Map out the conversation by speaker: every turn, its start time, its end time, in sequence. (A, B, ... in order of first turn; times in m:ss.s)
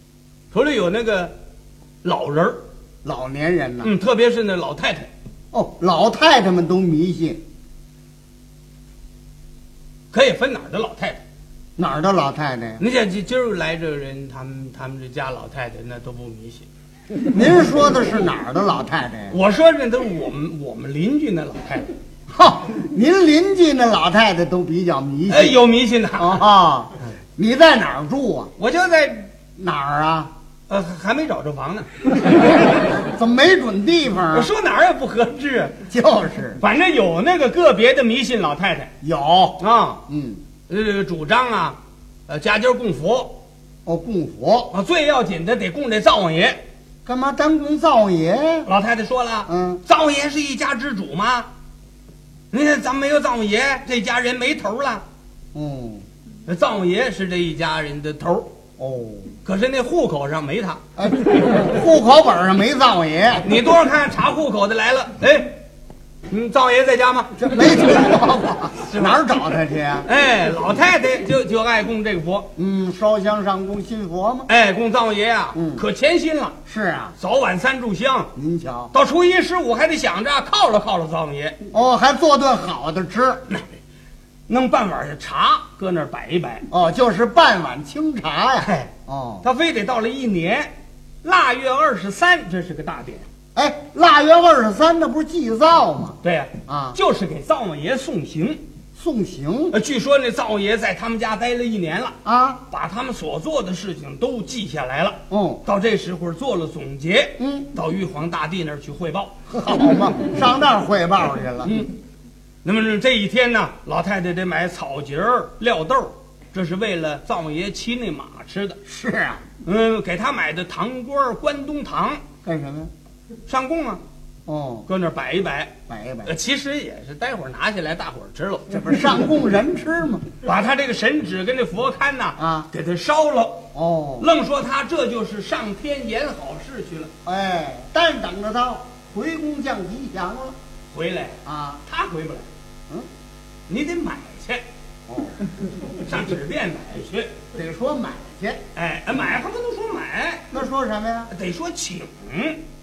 0:00.5-0:01.3 A
0:02.0-0:02.6 A
0:03.0-0:03.9 B
0:03.8-0:05.1 A
0:05.5-0:07.4 B
0:10.1-0:11.2 A
0:11.8-0:12.8 B
0:12.8-0:16.7 A
0:17.3-0:19.4 B
0:19.3-0:21.9 A
0:22.3-0:25.6 B
0:25.3-0:26.5 A
0:26.2-0:28.5 B
0:28.6-0:29.3 A
0:29.6-0:30.3 B
0:30.7-0:31.9 A
0:32.9-0:34.5 B
0:34.3-0:35.8 A
0:35.9-0:36.6 B
0:36.6-0:38.9 A
0:39.0-0:40.4 B
0:39.6-0:40.0 A
0:40.7-0:41.8 A
0:42.3-0:43.4 A
0:43.8-0:44.7 B
0:44.7-0:46.6 A
0:47.0-0:48.7 B
0:48.7-0:51.5 A
0:49.5-0:49.8 B
0:52.5-0:55.0 A
0:55.5-0:56.0 B
0:56.5-0:58.5 A
0:58.8-0:59.3 B
0:59.4-1:00.8 A
1:01.0-1:03.5 B
1:03.4-1:05.6 A
1:06.3-1:07.4 A
1:07.4-1:10.1 B
1:08.9-1:09.2 A
1:10.1-1:12.5 A
1:12.6-1:14.5 B
1:14.5-1:16.6 A
1:15.5-1:15.8 B
1:16.7-1:17.2 B
1:17.2-1:18.3 A
1:18.4-1:18.9 B
1:18.9-1:21.6 A
1:21.7-1:23.4 B
1:24.5-1:26.7 A
1:26.7-1:29.4 B
1:28.6-1:28.9 A
1:29.4-1:30.7 A
1:31.2-1:33.3 A
1:33.6-1:37.0 B
1:36.2-1:38.6 A
1:39.0-1:39.8 B
1:39.7-1:42.2 A
1:42.2-1:42.6 B
1:42.7-1:49.4 A
1:45.3-1:45.6 B
1:47.4-1:47.7 B
1:49.5-1:51.7 B
1:52.6-1:58.8 A
1:58.9-1:59.4 B
1:59.6-2:02.2 A
2:02.4-2:02.9 B
2:03.5-2:04.0 A
2:04.5-2:04.9 B
2:04.9-2:05.7 A
2:05.9-2:06.3 B
2:06.3-2:08.8 A
2:08.7-2:10.2 B
2:10.4-2:13.7 A
2:12.4-2:12.7 B
2:13.7-2:14.3 B
2:14.2-2:17.1 A
2:17.2-2:20.6 B
2:20.9-2:22.5 A
2:21.5-2:21.8 B
2:23.7-2:24.6 A
2:25.1-2:25.4 B
2:25.9-2:27.4 A
2:27.5-2:28.6 B
2:28.8-2:30.5 A
2:30.5-2:31.3 B
2:31.3-2:32.6 A